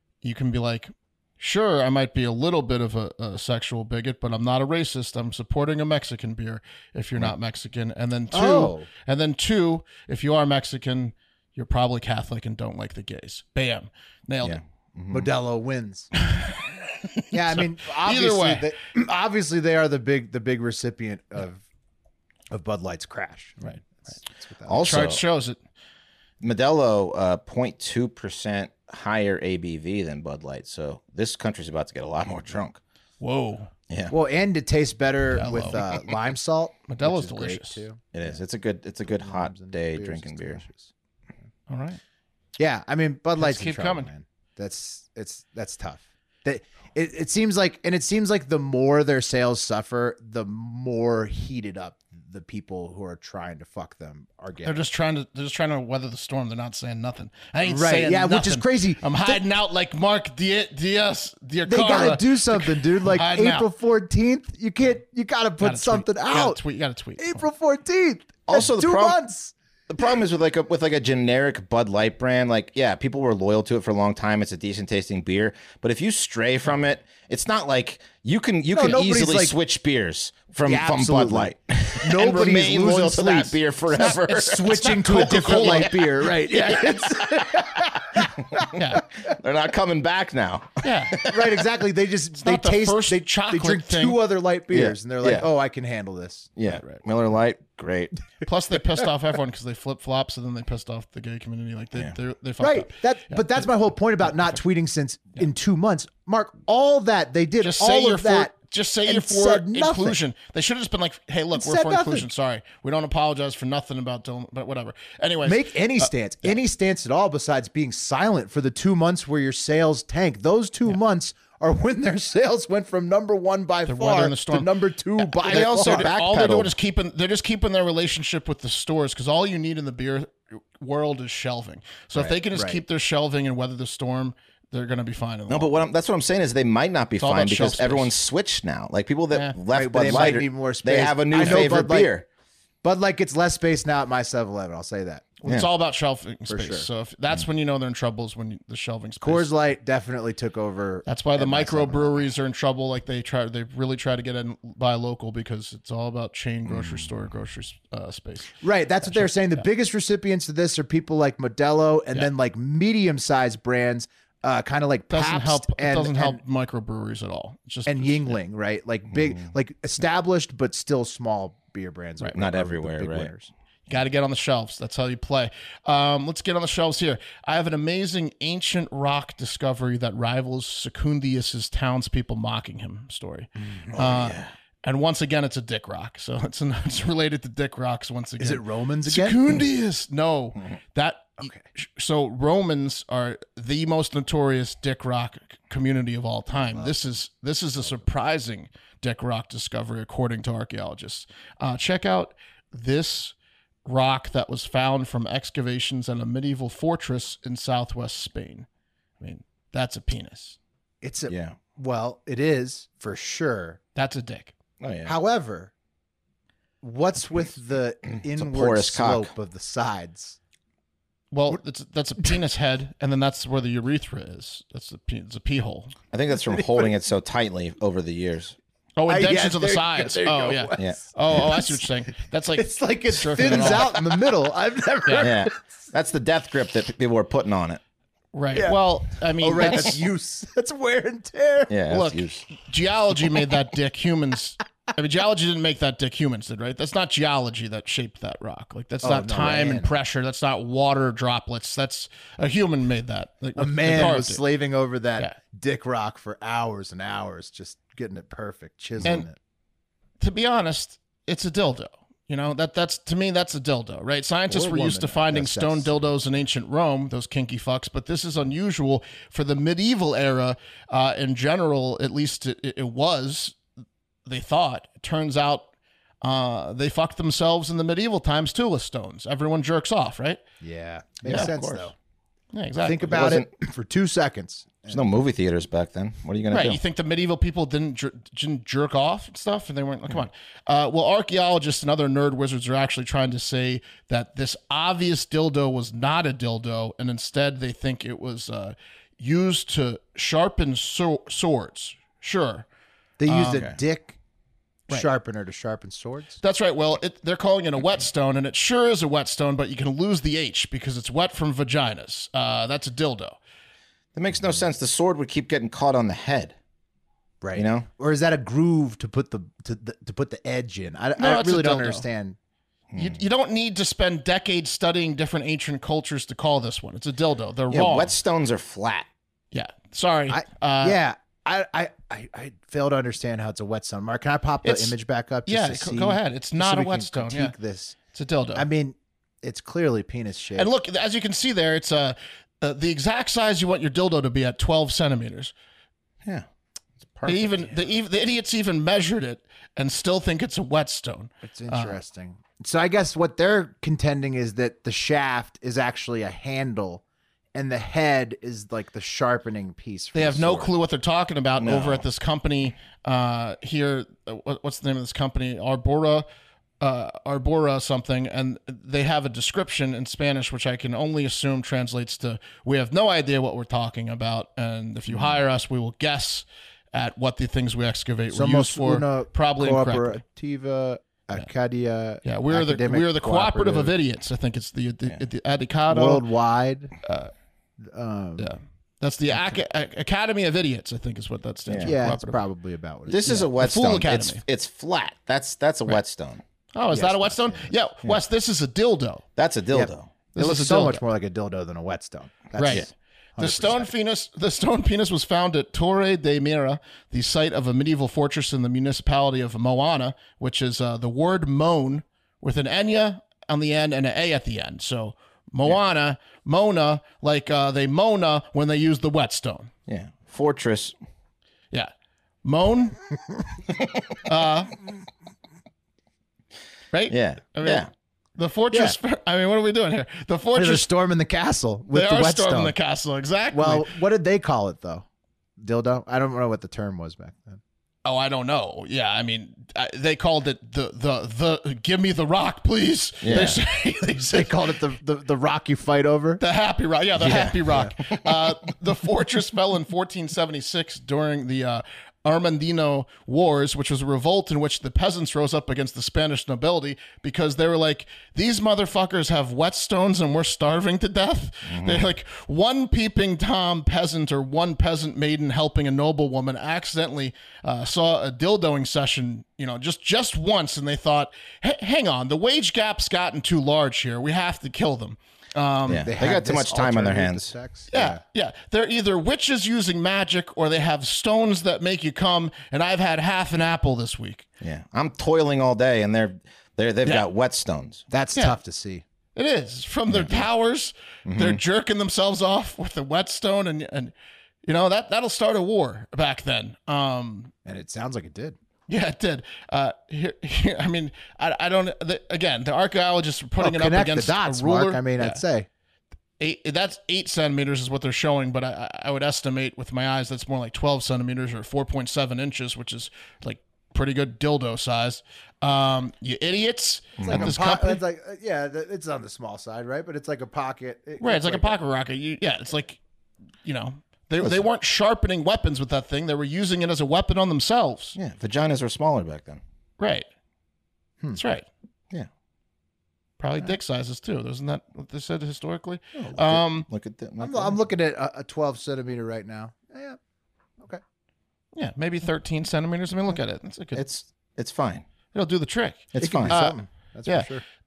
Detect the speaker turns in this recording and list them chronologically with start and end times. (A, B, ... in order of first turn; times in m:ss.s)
0:00.2-0:14.6 A
0:08.3-0:08.9 B
0:14.4-0:15.3 C
0:15.1-0:16.1 B
0:16.2-0:18.6 A
0:17.3-0:21.6 B
0:22.5-0:24.8 B
0:24.6-0:25.2 C
0:24.8-0:25.6 A
0:26.4-0:32.8 C
0:33.2-0:33.7 A
0:33.9-0:34.1 C
0:34.1-0:38.4 B
0:35.3-0:35.8 A
0:36.9-0:37.8 A
0:38.1-0:40.6 C
0:39.0-0:40.9 B
0:41.7-0:42.0 A
0:42.6-0:54.8 B
0:43.4-0:44.1 A
0:54.6-1:03.7 A
0:57.6-0:59.4 B
1:01.7-1:06.6 B
1:05.6-1:07.4 A
1:07.2-1:09.5 B
1:08.5-1:09.2 C
1:09.9-1:25.8 C
1:18.7-1:19.5 B
1:20.6-1:28.6 B
1:23.9-1:26.4 A
1:28.7-1:29.0 A
1:29.2-1:31.6 C
1:30.8-1:31.2 A
1:31.2-1:36.5 B
1:32.4-1:34.2 A
1:34.7-1:35.5 C
1:36.6-1:38.2 C
1:36.6-1:37.0 A
1:38.4-1:43.7 A
1:42.6-1:48.5 B
1:44.2-1:44.6 A
1:47.6-1:56.5 A
1:49.0-1:50.2 B
1:51.5-1:52.3 B
1:55.4-2:06.1 B
2:03.8-2:15.8 A
2:05.4-2:06.7 C
2:12.5-2:12.8 B
2:15.5-2:22.2 C
2:17.2-2:18.1 A
2:19.3-2:19.6 A
2:19.7-2:22.1 B
2:22.8-2:25.3 B
2:25.4-2:29.5 A
2:26.5-2:26.9 B
2:29.2-2:32.3 B
2:31.0-2:39.7 A
2:36.6-2:37.1 C
2:38.6-2:46.4 B
2:45.1-2:48.4 A
2:47.8-2:53.5 B
2:49.1-2:49.4 C
2:52.3-2:53.3 C
2:53.9-3:28.7 A
3:03.6-3:04.0 B
3:03.9-3:04.5 C
3:08.4-3:09.6 B
3:16.6-3:16.9 B
3:29.2-3:30.6 A
3:31.0-3:33.8 B
3:31.3-3:31.6 C
3:33.9-3:34.5 A
3:34.8-3:35.1 C
3:35.0-3:35.7 B
3:36.8-3:40.4 B
3:38.3-3:39.3 C
3:41.3-3:45.9 A
3:46.1-3:48.6 C
3:46.5-3:46.9 B
3:49.0-3:54.0 A
3:49.1-3:51.8 B
3:50.8-3:51.5 C
3:52.6-3:55.6 B
3:55.0-3:55.3 A
3:55.2-3:57.8 C
3:58.3-4:00.0 A
3:58.5-3:58.8 B
3:59.4-4:01.8 B
4:01.7-4:02.4 C
4:01.9-4:14.4 A
4:09.0-4:09.9 B
4:13.6-4:19.4 B
4:19.0-4:19.3 A
4:20.2-4:33.6 A
4:24.5-4:26.1 B
4:34.2-4:35.7 A
4:36.2-4:40.4 A
4:40.6-4:41.9 B
4:41.2-4:41.9 C
4:42.5-4:43.3 A
4:42.8-4:45.1 B
4:43.0-4:43.5 C
4:44.9-4:46.8 C
4:46.5-5:02.6 A
5:03.2-5:04.2 B
5:03.3-5:03.7 A
5:03.5-5:03.8 C
5:04.9-5:06.4 B
5:06.4-5:13.4 A
5:14.1-5:16.6 C
5:17.4-5:22.4 B
5:17.5-5:17.9 C
5:21.2-5:22.1 A
5:22.9-5:23.2 C
5:22.9-5:28.1 A
5:27.7-5:29.1 C
5:29.5-5:31.0 A
5:30.3-5:38.0 B
5:34.6-5:34.9 A
5:35.4-5:37.5 A
5:38.1-5:38.7 A
5:38.6-5:40.7 B
5:40.6-5:45.5 A
5:47.0-5:48.0 C
5:47.2-5:52.0 A
5:51.4-5:57.0 B
5:57.5-6:00.7 B
6:00.1-6:06.2 A
6:01.6-6:02.0 C
6:06.8-6:20.2 A
6:15.1-6:15.4 C
6:18.3-6:23.9 B
6:22.2-6:26.2 A
6:25.9-6:26.9 B
6:27.0-6:27.3 A
6:27.8-6:28.5 B
6:28.4-6:32.4 A
6:31.6-6:32.0 C
6:31.8-6:33.4 B
6:33.1-6:36.4 C
6:33.2-6:34.4 A
6:36.7-6:39.2 A
6:36.9-6:37.7 B
6:39.4-6:40.1 C
6:39.7-6:43.9 B
6:40.3-6:41.0 A
6:42.6-6:42.9 A
6:43.4-6:59.7 A
6:59.9-7:01.0 C
7:02.4-7:03.0 A
7:04.2-7:04.7 A
7:06.9-7:10.9 A
7:07.1-7:07.9 C
7:08.7-7:09.0 B
7:10.5-7:12.7 B
7:11.9-7:13.9 A
7:13.5-7:15.0 B
7:15.6-7:17.6 B
7:18.0-7:24.5 A
7:23.2-7:23.6 C
7:24.2-7:26.4 B
7:26.4-7:56.1 A
7:27.2-7:27.9 B
7:41.6-7:42.1 C
7:55.9-7:57.5 C
7:55.9-7:58.2 B
7:57.9-8:04.4 A
8:04.6-8:08.0 C
8:08.1-8:09.0 B
8:08.3-8:08.6 A
8:09.3-8:14.1 A
8:10.1-8:10.5 C
8:11.2-8:11.6 C
8:14.6-8:17.5 A
8:17.6-8:18.6 B
8:18.9-8:25.4 A
8:23.6-8:25.7 B
8:26.4-8:38.0 A
8:37.2-8:37.5 C
8:37.2-8:41.7 B
8:41.2-8:43.0 A
8:43.6-8:48.2 A
8:48.1-8:49.6 C
8:50.0-8:50.3 A
8:51.3-8:51.6 A
8:53.4-8:56.9 A
8:56.1-8:57.9 C
8:57.4-9:00.2 B
9:01.8-9:04.0 A
9:03.9-9:05.0 C
9:05.3-9:07.5 A
9:06.1-9:06.7 C
9:06.2-9:07.6 B